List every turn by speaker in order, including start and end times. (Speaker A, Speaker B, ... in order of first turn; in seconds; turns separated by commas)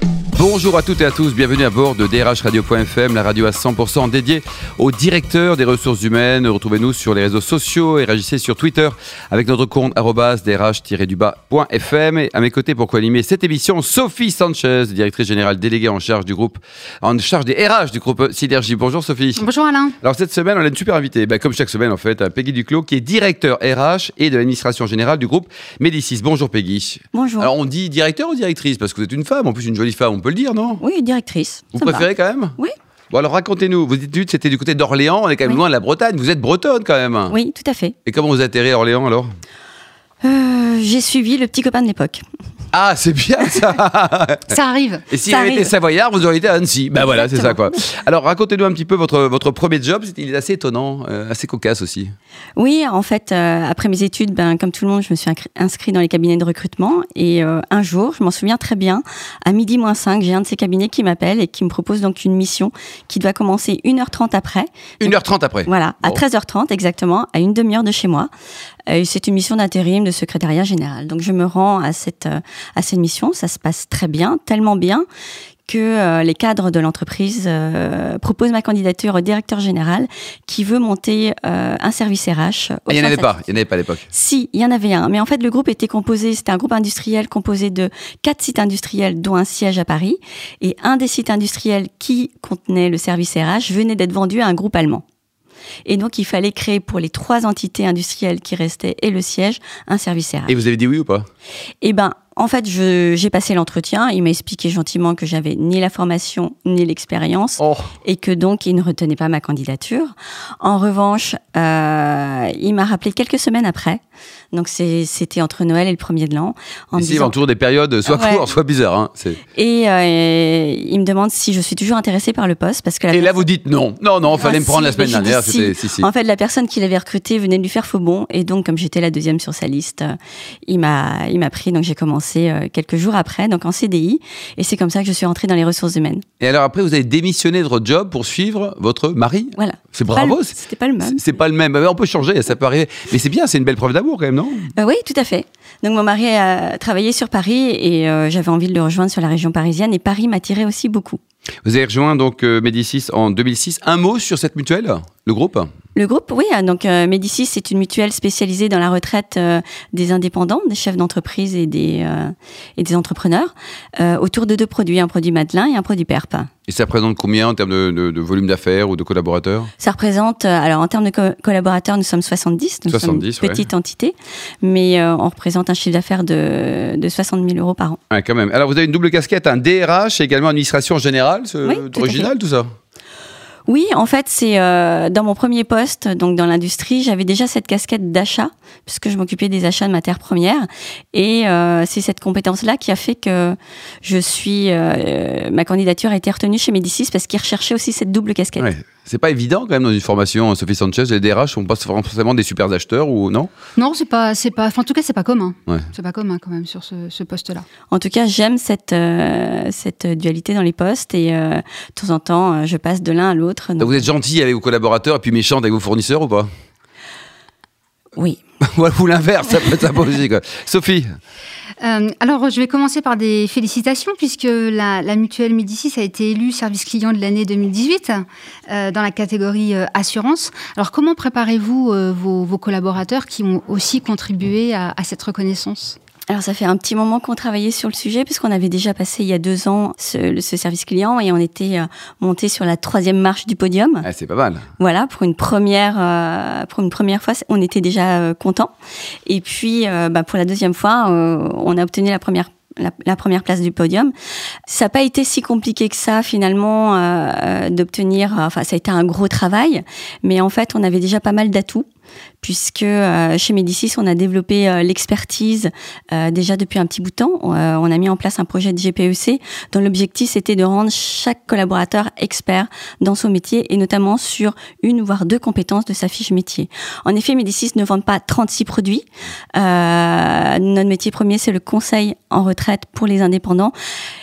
Speaker A: 0.3-19.5, Speaker B: 19.4-20.0, Speaker A: 20.0-30.8, Speaker C: 27.1-27.5, Speaker C: 30.8-32.8, Speaker A: 31.7-32.6, Speaker A: 33.1-37.4, Speaker C: 37.3-38.0, Speaker A: 38.1-39.3, Speaker C: 40.2-42.2, Speaker A: 42.7-44.6, Speaker B: 44.5-45.0, Speaker A: 45.1-52.1, Speaker C: 45.3-45.7, Speaker C: 47.1-47.6, Speaker C: 52.6-68.3, Speaker A: 65.0-66.2, Speaker C: 68.9-75.1, Speaker C: 75.7-83.5, Speaker A: 82.9-84.1, Speaker C: 84.1-95.0, Speaker C: 95.9-100.6, Speaker A: 100.5-101.3, Speaker C: 101.8-114.0, Speaker A: 107.6-107.9, Speaker C: 114.5-117.4, Speaker A: 116.9-119.4, Speaker C: 118.1-118.4, Speaker C: 119.5-123.4, Speaker A: 123.1-126.1, Speaker C: 124.4-130.2, Speaker C: 130.7-136.2, Speaker A: 136.4-144.7, Speaker C: 139.6-141.4, Speaker C: 144.8-151.2, Speaker A: 151.7-155.7, Speaker C: 155.9-166.5, Speaker A: 166.7-169.7, Speaker C: 169.8-178.0, Speaker A: 172.9-173.7, Speaker A: 178.1-182.7, Speaker C: 181.6-182.3, Speaker C: 183.7-198.7, Speaker A: 198.6-203.5, Speaker B: 203.8-207.7, Speaker C: 207.9-214.1, Speaker A: 213.8-216.5, Speaker A: 218.6-221.1, Speaker B: 221.8-236.0, Speaker C: 236.3-244.1, Speaker A: 244.0-244.7, Speaker C: 244.8-248.7, Speaker C: 249.3-254.1, Speaker C: 254.7-261.9, Speaker C: 262.4-283.7